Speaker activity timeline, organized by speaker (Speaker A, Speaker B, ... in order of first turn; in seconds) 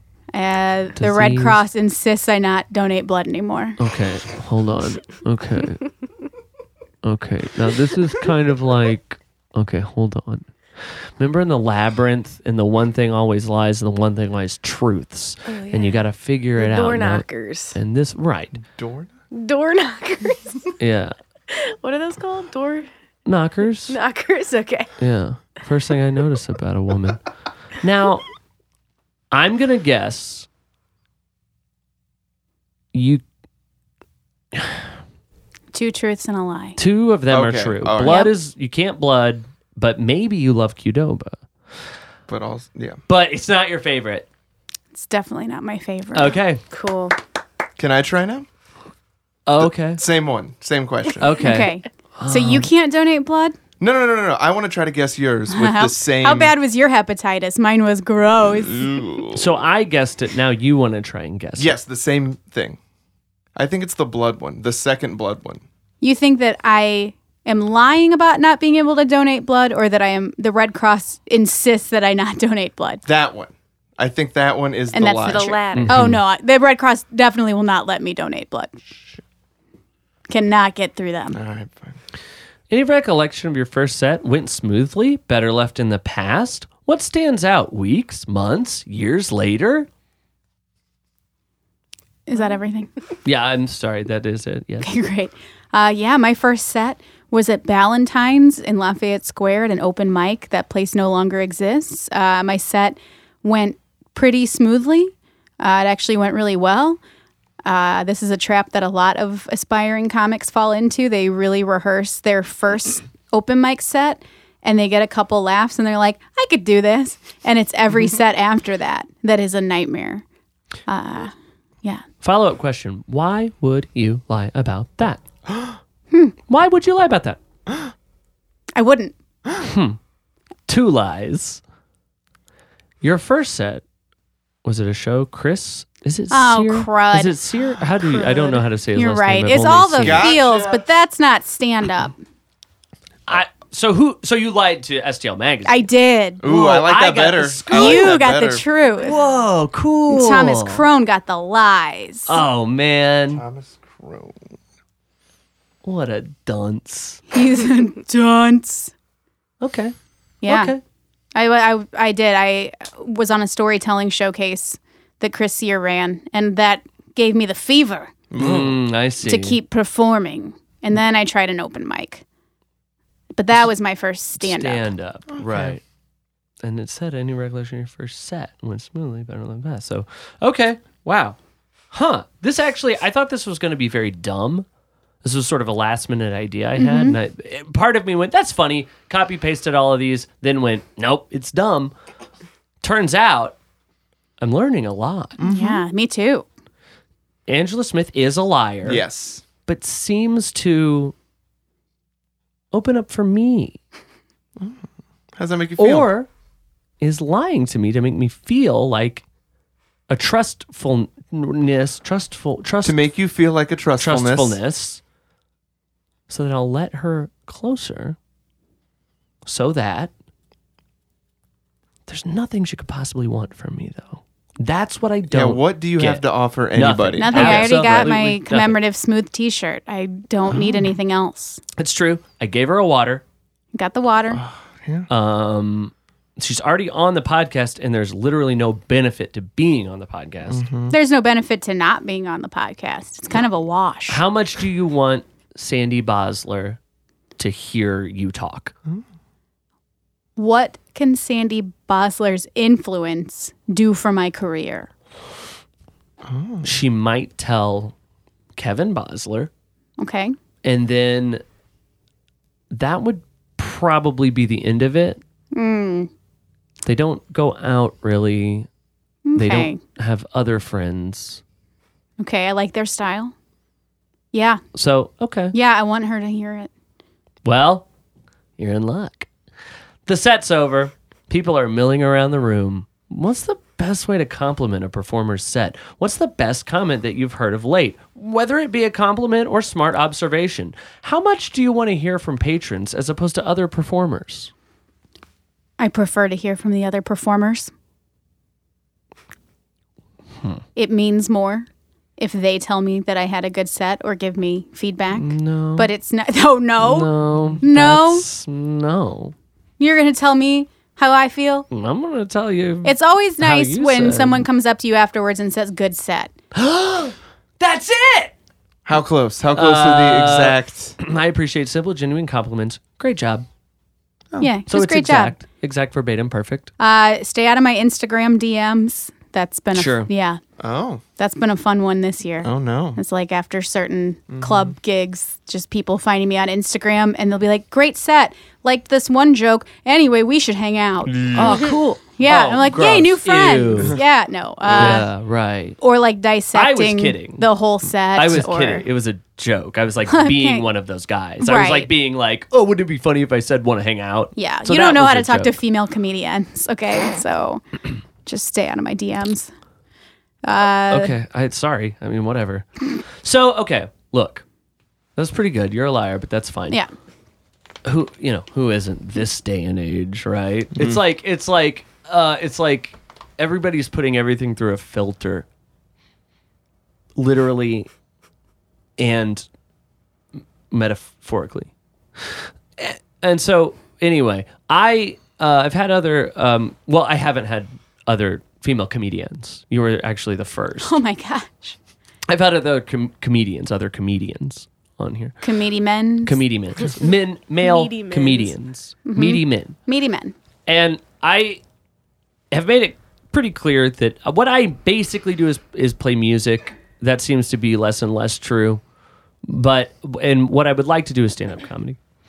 Speaker A: 0.3-3.8, 35.7-36.8, 38.0-38.3, 44.9-46.4, 51.4-53.6, 55.5-58.9, 66.0-73.0, 74.9-78.7, 80.3-81.4, 92.3-92.9, 94.8-107.0, 107.6-120.2, 120.9-122.0, 126.1-126.3, 128.8-129.1, 136.3-137.4, 138.2-142.2, 145.7-146.4, 147.7-149.2, 150.1-152.4, 157.3-158.9, 160.4-160.7, 161.3-168.1, 169.2-172.2, 173.3-174.9, 186.8-187.2, 195.4-196.4, 227.2-231.6, 233.7-234.4, 240.9-244.2, 250.3-254.9, 260.0-260.4, 265.5-266.1, 269.2-269.8, 272.2-273.3, 274.3-274.6, 275.5-276.7, 295.8-297.7, 300.8-301.7, 302.2-307.1, 307.6-308.2, 309.8-311.7, 312.8-316.3, 324.4-325.4, 326.8-330.4, 331.2-345.1, 345.8-348.8, 350.1-350.7, 351.4-351.9, 354.4-357.6, 358.2-359.5, 360.4-361.1, 390.8-391.8, 395.4-396.4, 399.1-400.3
Speaker B: 0.9-1.6, 3.8-5.8, 7.0-10.5, 11.2-18.6, 20.8-21.1, 23.2-24.0, 25.0-27.2, 27.8-28.3, 29.3-30.5, 32.9-33.2, 36.8-41.4, 43.1-44.3, 46.1-46.6, 49.5-50.0, 51.2-52.7, 59.3-61.7, 75.7-76.2, 82.7-89.9, 93.2-94.9, 122.2-125.2, 126.5-127.4, 129.6-130.0, 130.7-131.6, 133.0-133.8, 134.6-140.3, 143.3-145.8, 146.4-148.4, 149.0-150.8, 152.3-153.4, 155.8-157.2, 159.6-159.9, 160.4-160.8, 168.4-169.6, 174.4-175.8, 176.6-181.4, 181.9-184.7, 185.2-191.9, 192.8-193.6, 194.4-195.4, 197.5-199.0, 199.6-201.1, 202.7-203.8, 205.8-206.3, 207.0-209.2, 210.1-213.0, 214.0-215.0, 216.3-218.2, 219.4-220.1, 222.1-228.8, 231.8-233.2, 235.1-240.7, 244.1-246.8, 247.4-248.7, 256.6-257.9, 258.6-259.5, 260.6-261.4, 262.7-265.2, 266.8-268.7, 269.3-271.4, 274.7-275.5, 277.4-277.9, 278.6-279.3, 280.1-294.5, 305.1-305.9, 306.8-309.3, 311.7-314.4, 316.5-318.3, 319.5-323.5, 324.7-326.7, 329.7-330.1, 341.1-344.0, 344.7-345.8, 346.5-347.5, 348.1-355.6, 360.9-364.4, 365.1-366.8, 367.8-375.4, 377.1-377.9, 379.0-379.5, 380.7-381.7, 382.2-390.9, 392.3-395.4, 396.2-399.8, 400.7-401.6, 402.5-408.8, 409.4-412.0
Speaker C: 15.5-16.0, 16.6-17.8, 19.3-20.7, 21.5-22.9, 23.9-24.9, 46.7-47.1, 75.2-75.9, 397.6-398.5
Speaker D: 18.5-19.1, 37.3-38.2, 42.3-43.0, 47.8-48.5, 49.6-51.5, 53.8-56.5, 58.6-59.5, 61.6-62.8, 63.5-65.6, 73.0-75.5, 81.3-82.0, 125.5-125.8, 140.0-140.8, 146.4-148.6, 153.3-154.5, 168.3-168.8, 175.3-175.8, 195.4-195.8, 198.8-199.4, 204.6-204.8, 205.3-206.1, 212.8-214.6, 225.3-228.1, 230.5-230.9, 234.3-235.1, 240.5-240.9, 256.2-256.7, 318.9-320.9, 330.6-331.0, 332.4-333.0, 334.3-334.7, 341.3-341.6, 344.6-345.0, 370.7-371.0